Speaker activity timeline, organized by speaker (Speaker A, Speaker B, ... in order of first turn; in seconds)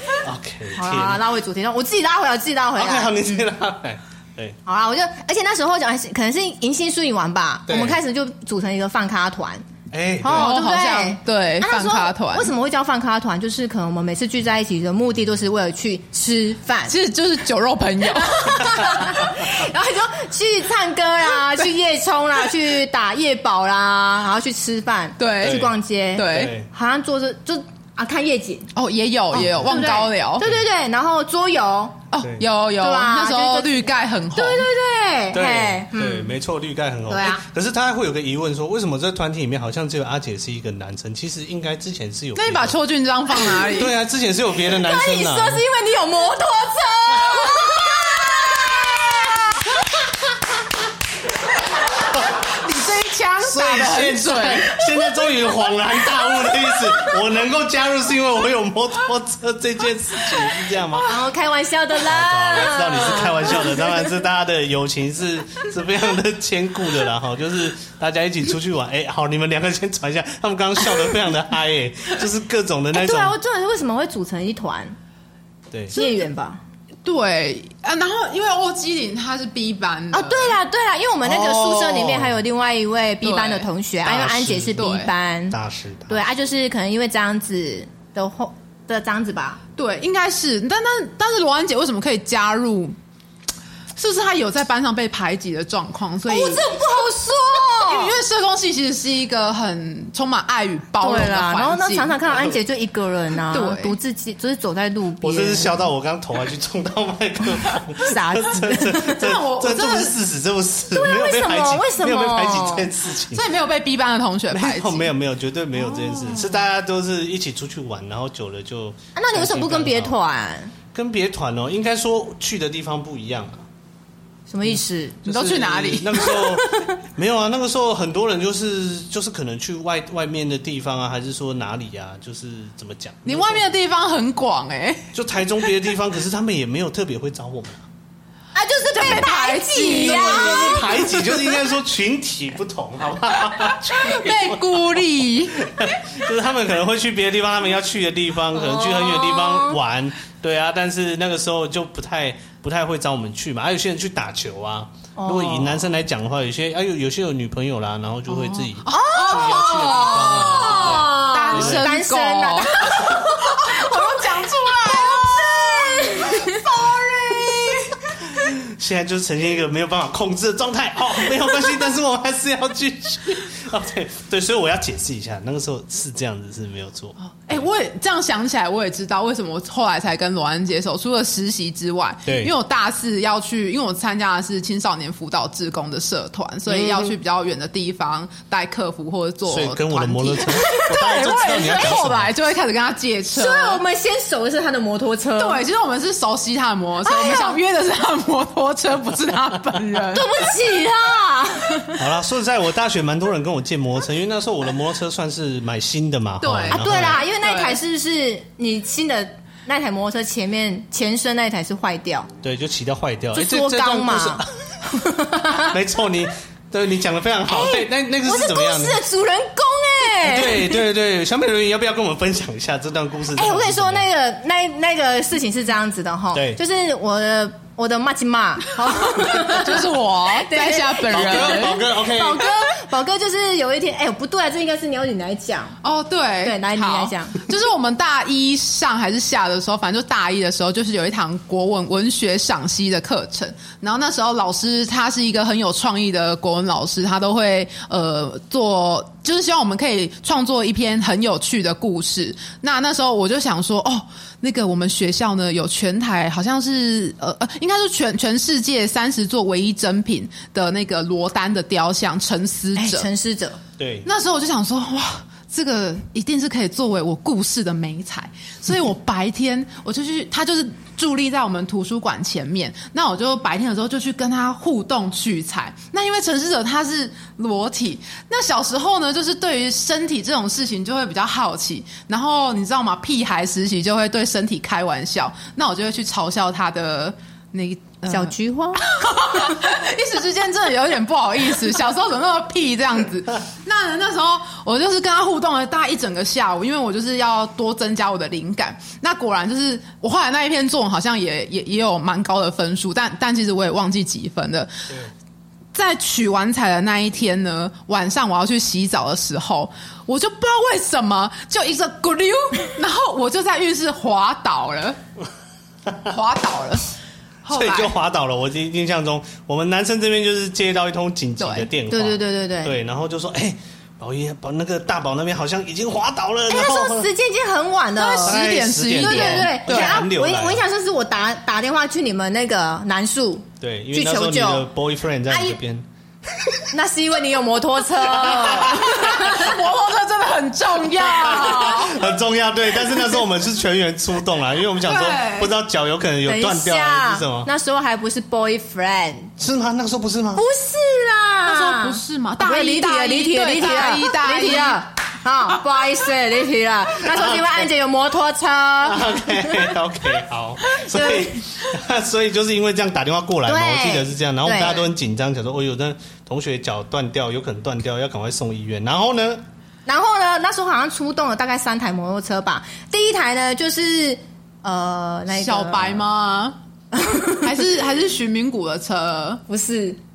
Speaker A: 0.2-1.2, 2.8-4.6, 7.7-8.0, 9.9-10.5, 25.4-26.7, 29.4-29.8, 35.3-42.8, 43.4-45.6, 53.4-61.1, 62.0-73.3, 75.7-76.0, 81.2-82.4, 84.0-84.8, 85.5-86.2, 105.2-113.5, 114.5-120.2, 120.9-123.7, 124.7-133.7, 135.1-137.8, 140.0-145.0, 145.6-161.9, 168.3-177.7, 182.3-182.5, 189.5-192.3, 202.0-207.2, 212.4-214.5, 215.6-219.0, 220.2-224.1, 226.3-226.6, 231.1-232.4, 263.8-264.1, 315.9-316.1, 317.5-327.1, 328.2-330.6, 333.6-335.9, 338.2-338.9, 341.1-347.5, 349.4-350.4, 357.0-357.7, 358.8-369.4
Speaker B: 0.8-3.5, 4.7-9.6, 10.2-16.9, 18.2-28.7, 29.3-32.0, 32.8-36.3, 37.1-37.4, 44.6-50.2, 56.3-56.8, 60.9-64.1, 72.9-75.0, 75.9-76.6, 80.1-85.6, 86.1-89.6, 96.3-98.2, 101.0-105.8, 108.0-109.3, 110.9-112.9, 119.2-120.7, 124.5-125.2, 138.6-141.3, 148.5-149.8, 155.2-155.8, 158.9-166.7, 186.8-187.1, 190.6-191.0, 193.3-195.6, 197.0-197.6, 200.1-202.0, 206.7-212.3, 213.3-215.7, 217.5-220.8, 223.3-235.8, 236.4-237.4, 262.8-263.6, 288.1-289.5, 321.9-322.8, 326.5-328.4, 329.0-334.7, 336.7-339.5, 346.2-349.3, 350.4-359.7, 360.7-361.4, 363.5-364.9, 369.9-376.1, 376.9-377.6, 379.5-380.0
Speaker C: 10.2-12.5, 16.9-18.6, 25.2-26.5, 28.8-30.4, 32.1-34.7, 42.4-44.0, 52.4-54.7, 75.9-76.2, 77.0-80.6, 83.2-83.7, 84.8-85.1, 89.8-93.0, 94.0-96.6, 97.8-102.2, 103.5-104.0, 109.2-110.2, 113.3-115.1, 116.0-116.5, 125.3-126.6, 133.3-135.1, 138.9-141.1, 144.0-145.7, 158.4-168.0, 177.2-193.8, 195.4-200.3, 206.4-207.8, 229.2-231.8, 235.8-263.1, 264.1-304.9, 305.7-315.0, 316.1-316.8, 317.4-317.9, 321.4-321.7, 328.0-330.0, 338.6-342.0, 344.8-345.5, 351.4-354.8, 375.3-376.6, 377.4-379.4